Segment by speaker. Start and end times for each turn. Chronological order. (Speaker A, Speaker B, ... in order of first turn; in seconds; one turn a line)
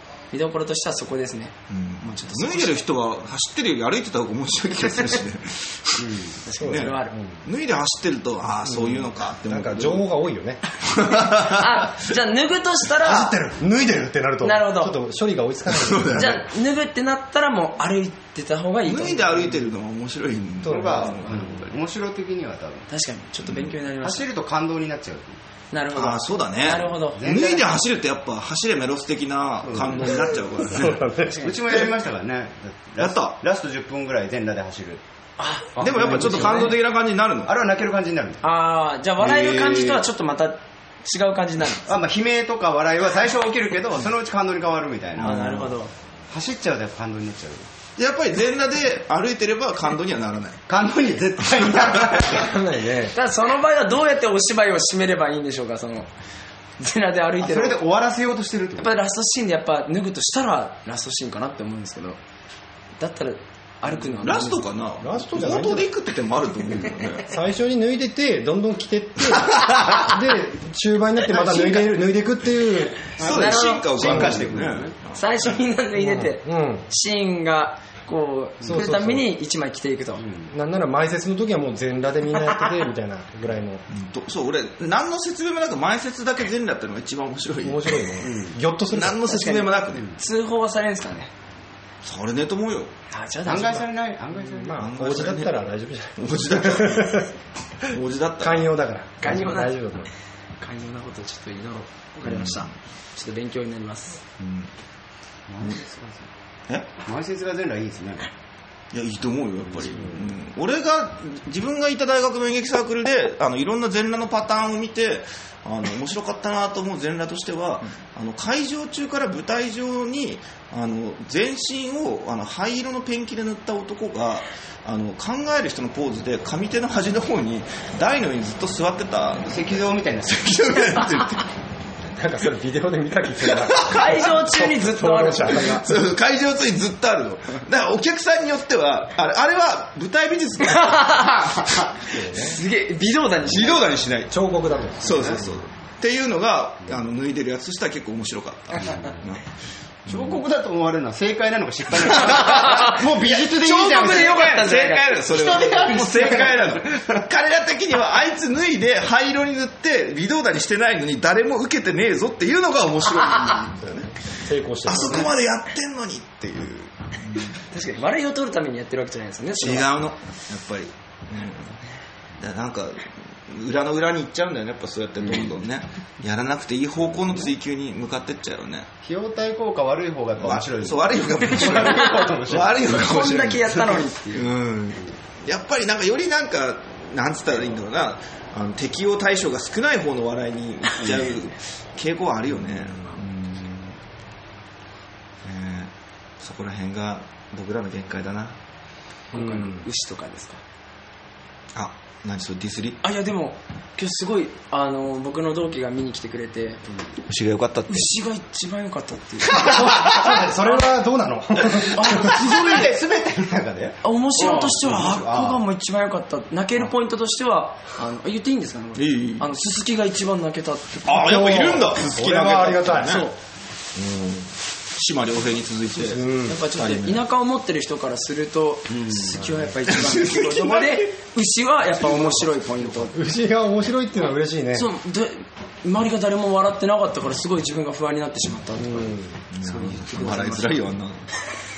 Speaker A: 0.3-2.8
Speaker B: 1.7-10.1
Speaker C: 6.0-6.4
Speaker A: 6.5-7.2
Speaker D: 6.6-7.4
Speaker D: 8.7-10.6
Speaker B: 10.8-12.1
Speaker A: 11.4-13.4
Speaker D: 13.1-16.4
Speaker A: 14.4-15.0
Speaker B: 15.7-16.4
Speaker A: 16.1-19.6
Speaker B: 18.9-21.7
Speaker D: 20.6-21.2
Speaker C: 20.7-22.9
Speaker A: 22.9-24.3
Speaker B: 23.4-23.7
Speaker C: 24.0-25.4
Speaker A: 25.7-27.2
Speaker B: 25.9-31.1
Speaker C: 27.1-27.7
Speaker C: 29.6-30.3
Speaker D: 30.1-31.5
Speaker C: 31.4-35.0
Speaker B: 33.0-33.4
Speaker A: 35.4-36.8
Speaker D: 35.8-36.2
Speaker B: 35.8-37.5
Speaker C: 36.0-36.5
Speaker C: 37.5-38.5
Speaker A: 38.4-41.9
Speaker C: 39.2-40.0
Speaker C: 41.9-45.7
Speaker A: 45.2-45.9
Speaker B: 45.2-45.7
Speaker C: 46.3-47.7
Speaker B: 48.0-50.6
Speaker C: 50.7-52.5
Speaker D: 52.2-53.1
Speaker A: 53.1-56.1
Speaker A: 56.8-57.8
Speaker C: 57.4-58.9
Speaker A: 58.8-62.2
Speaker A: 63.0-64.7
Speaker B: 64.2-67.3
Speaker D: 65.0-65.9
Speaker D: 67.3-73.1
Speaker A: 71.4-72.0
Speaker B: 73.2-75.5
Speaker C: 73.2-75.0
Speaker A: 73.2-74.2
Speaker D: 74.0-74.5
Speaker A: 75.1-80.2
Speaker D: 76.0-76.9
Speaker D: 78.6-79.3
Speaker C: 80.2-80.5
Speaker D: 80.5-83.8
Speaker B: 83.9-90.1
Speaker D: 87.6-89.2
Speaker C: 88.2-88.5
Speaker A: 89.2-91.3
Speaker B: 92.0-92.9
Speaker A: 93.1-93.9
Speaker C: 93.5-94.8
Speaker D: 94.5-97.3
Speaker B: 94.8-97.2
Speaker B: 97.9-98.8
Speaker D: 98.4-100.1
Speaker A: 99.2-99.8
Speaker A: 100.6-104.2
Speaker B: 102.2-102.7
Speaker B: 104.4-104.7
Speaker C: 105.5-106.3
Speaker C: 107.0-108.3
Speaker B: 108.9-131.5
Speaker C: 109.9-110.2
Speaker C: 129.5-130.5
Speaker D: 132.2-135.8
Speaker A: 133.9-135.9
Speaker B: 135.6-141.1
Speaker A: 140.7-141.8
Speaker D: 142.1-142.6
Speaker A: 142.3-144.0
Speaker B: 143.5-144.3
Speaker D: 144.2-145.4
Speaker B: 145.0-149.5
Speaker C: 145.0-145.5
Speaker C: 148.8-149.2
Speaker B: 150.1-150.4
Speaker C: 150.1-154.7
Speaker B: 152.2-164.3
Speaker A: 152.7-152.9
Speaker A: 153.6-156.4
Speaker C: 155.3-157.3
Speaker D: 164.4-165.3
Speaker B: 164.8-167.6
Speaker A: 167.7-169.9
Speaker B: 169.6-171.8
Speaker B: 172.4-178.9
Speaker C: 179.0-182.8
Speaker B: 180.4-193.9
Speaker A: 181.8-182.2
Speaker A: 182.8-184.5
Speaker B: 195.4-198.6
Speaker A: 199.3-200.6
Speaker D: 199.3-199.8
Speaker B: 201.8-203.0
Speaker A: 203.0-206.8
Speaker B: 207.3-208.1
Speaker A: 207.9-209.7
Speaker D: 209.5-212.4
Speaker B: 209.6-210.2
Speaker B: 211.7-212.8
Speaker A: 211.9-212.9
Speaker C: 212.1-215.6
Speaker A: 214.0-221.2
Speaker B: 219.0-219.5
Speaker B: 221.0-223.3
Speaker D: 221.2-223.2
Speaker A: 223.1-223.3
Speaker B: 223.9-227.2
Speaker D: 226.0-226.6
Speaker A: 226.5-233.2
Speaker C: 228.9-229.5
Speaker B: 229.9-231.1
Speaker D: 233.1-234.9
Speaker A: 234.7-240.9
Speaker D: 238.8-239.5
Speaker B: 239.5-241.3